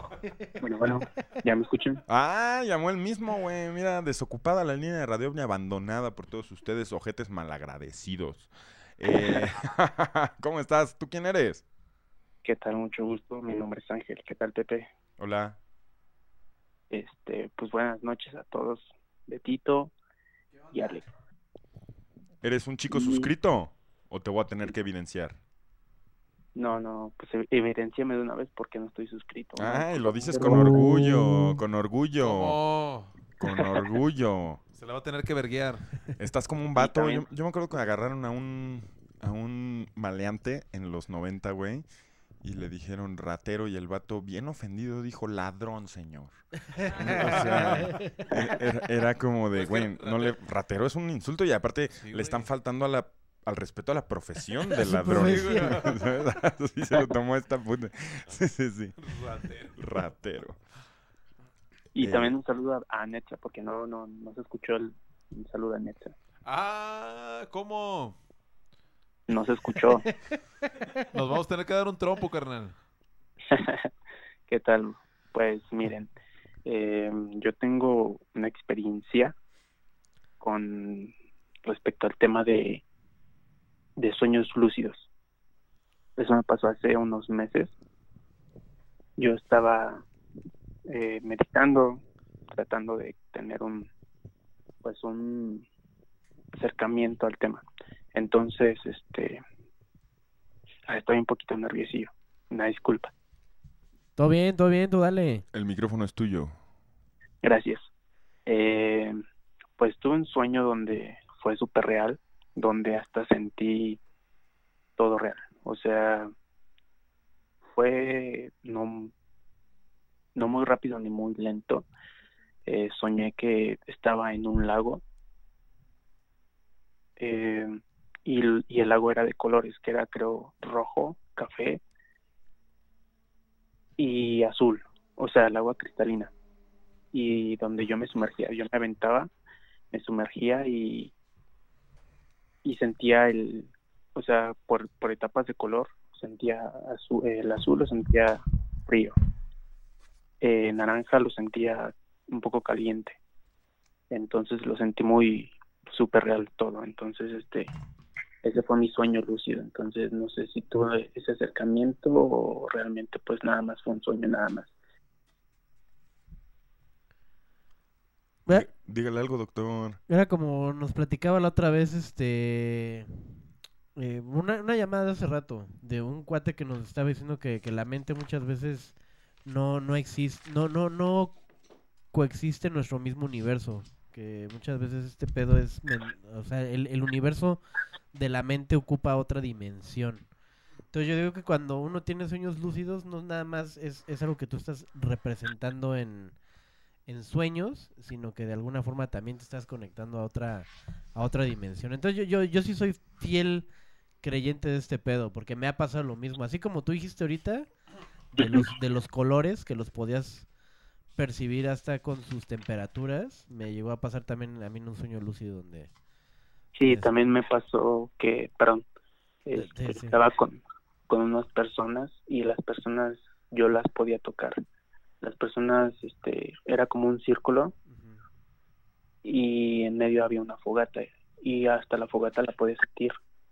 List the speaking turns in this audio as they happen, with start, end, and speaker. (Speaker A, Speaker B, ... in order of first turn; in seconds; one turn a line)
Speaker A: 0.6-2.0
Speaker B: 2.1-11.6
Speaker A: 9.1-9.5
Speaker A: 12.4-14.9
Speaker B: 15.2-15.6
Speaker A: 16.9-19.9
Speaker A: 20.7-21.1
Speaker B: 22.4-25.4
Speaker A: 22.9-23.3
Speaker A: 26.6-30.8
Speaker B: 29.6-32.6
Speaker C: 30.4-31.6
Speaker D: 32.2-33.1
Speaker B: 33.4-34.6
Speaker D: 34.8-35.9
Speaker B: 36.2-41.9
Speaker A: 36.8-37.3
Speaker B: 42.4-46.4
Speaker C: 46.8-48.3
Speaker B: 46.9-59.0
Speaker D: 47.0-47.9
Speaker D: 49.5-50.4
Speaker D: 52.0-52.5
Speaker C: 54.7-55.9
Speaker D: 55.1-56.1
Speaker D: 59.0-59.8
Speaker B: 59.8-60.6
Speaker A: 62.0-66.1
Speaker B: 62.0-62.4
Speaker D: 66.5-68.2
Speaker A: 69.3-70.0
Speaker D: 71.1-72.8
Speaker A: 73.5-73.9
Speaker A: 74.5-76.1
Speaker A: 76.7-79.3
Speaker A: 80.4-81.1
Speaker A: 81.6-82.8
Speaker A: 84.0-85.1
Speaker A: 86.2-87.7
Speaker A: 89.2-90.0
Speaker A: 90.9-93.9
Speaker A: 94.8-95.7
Speaker A: 96.5-97.6
Speaker A: 98.1-99.4
Speaker A: 100.9-103.1
Speaker C: 104.2-105.5
Speaker B: 105.5-106.6
Speaker A: 107.4-107.8
Speaker A: 108.5-109.2
Speaker A: 109.8-114.0
Speaker A: 115.0-116.3
Speaker A: 117.7-119.1
Speaker A: 120.3-121.9
Speaker A: 122.7-125.0
Speaker A: 127.2-131.8
Speaker A: 134.0-136.3
Speaker A: 137.1-139.3
Speaker A: 139.9-141.1
Speaker A: 142.7-149.2
Speaker A: 150.4-153.2
Speaker A: 154.1-157.7
Speaker A: 158.4-164.7
Speaker B: 168.5-170.0
Speaker C: 170.1-173.3
Speaker C: 174.0-178.9
Speaker C: 179.5-181.3
Speaker C: 182.1-187.6
Speaker C: 188.1-190.2
Speaker C: 190.9-196.3
Speaker C: 197.1-203.7
Speaker C: 204.2-207.7
Speaker C: 208.3-210.5
Speaker A: 208.4-208.7
Speaker C: 211.2-215.9
Speaker A: 216.8-218.8
Speaker C: 216.9-217.3
Speaker A: 219.5-224.6
Speaker C: 219.5-220.2
Speaker A: 225.2-227.7
Speaker C: 227.9-228.2
Speaker A: 229.2-233.2